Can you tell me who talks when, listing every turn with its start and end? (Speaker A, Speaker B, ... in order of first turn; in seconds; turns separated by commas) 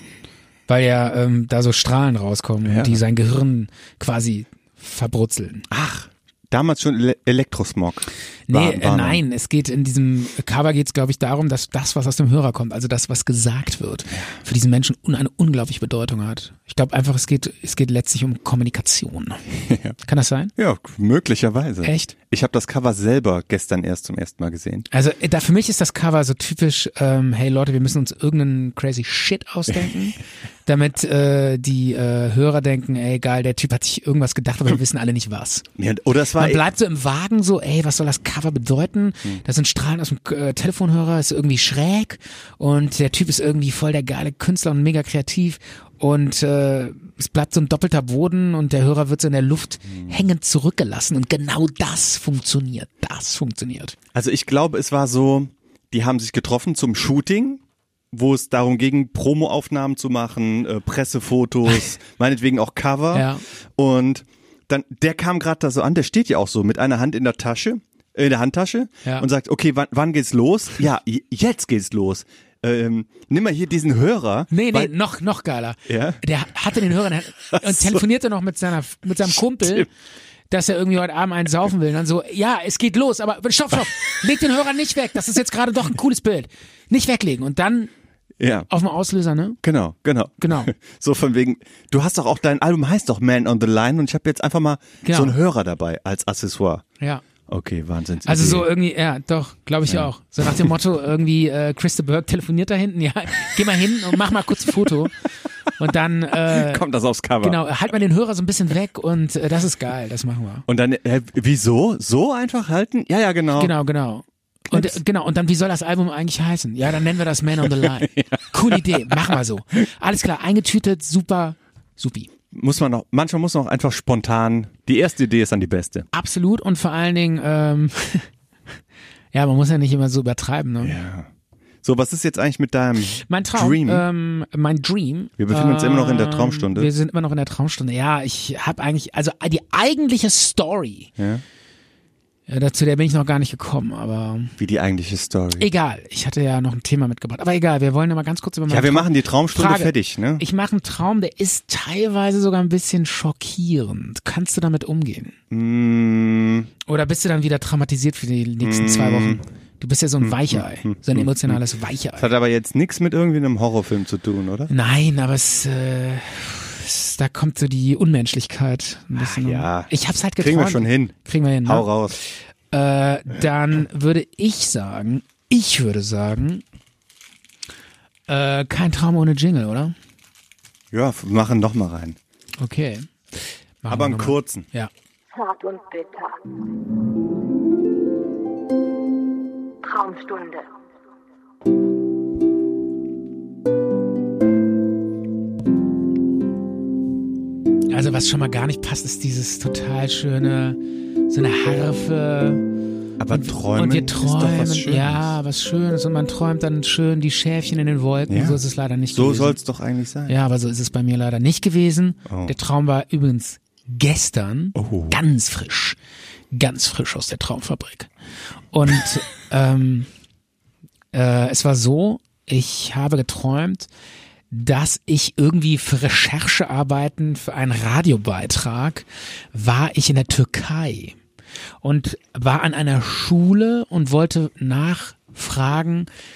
Speaker A: 0.7-5.7, Speaker B: 2.6-3.0, Speaker B: 5.7-9.2, Speaker A: 8.5-19.4, Speaker B: 19.6-19.9, Speaker A: 20.0-20.5, Speaker B: 20.6-24.9, Speaker A: 21.8-22.1, Speaker A: 24.9-35.6, Speaker B: 35.8-36.6, Speaker A: 36.4-54.0, Speaker B: 54.1-57.6, Speaker B: 58.1-74.9, Speaker A: 63.1-63.4, Speaker A: 74.5-79.9, Speaker B: 75.9-76.2, Speaker B: 77.5-78.0, Speaker B: 79.2-79.9, Speaker A: 80.5-87.9, Speaker B: 88.4-88.7, Speaker A: 88.7-89.6, Speaker B: 89.6-96.8, Speaker A: 90.4-90.7, Speaker A: 95.0-95.3, Speaker B: 97.5-98.7, Speaker A: 98.2-105.2, Speaker B: 99.9-100.7, Speaker A: 105.8-106.8, Speaker B: 106.5-107.6, Speaker A: 107.4-110.7, Speaker B: 110.7-113.7, Speaker A: 113.5-122.3, Speaker B: 114.7-115.0, Speaker B: 117.7-119.3, Speaker B: 122.5-126.0, Speaker A: 126.1-128.3, Speaker A: 129.3-130.9, Speaker B: 130.8-131.3, Speaker B: 131.8-134.0, Speaker A: 133.2-141.1, Speaker B: 135.4-136.9, Speaker B: 141.2-141.4, Speaker A: 142.5-144.5, Speaker B: 144.6-145.7, Speaker A: 145.6-155.3, Speaker B: 148.7-150.4, Speaker B: 155.5-156.7, Speaker A: 156.8-162.3, Speaker B: 158.6-159.4, Speaker B: 160.2-161.6, Speaker B: 162.2-164.7, Speaker A: 164.7-171.9, Speaker B: 169.1-171.1, Speaker B: 171.6-172.2, Speaker A: 172.7-176.6, Speaker A: 178.3-179.9, Speaker B: 180.9-182.2, Speaker A: 182.6-183.1, Speaker A: 183.8-184.9, Speaker B: 183.9-184.7, Speaker C: 185.3-186.4, Speaker C: 189.8-190.7, Speaker A: 197.9-202.7, Speaker B: 203.2-205.3, Speaker A: 203.3-209.6, Speaker B: 208.3-210.4, Speaker A: 210.3-216.0, Speaker B: 212.3-212.5, Speaker B: 214.8-215.2, Speaker A: 216.5-218.1, Speaker A: 218.7-220.1, Speaker A: 221.1-223.9, Speaker A: 224.5-231.2, Speaker A: 231.8-236.1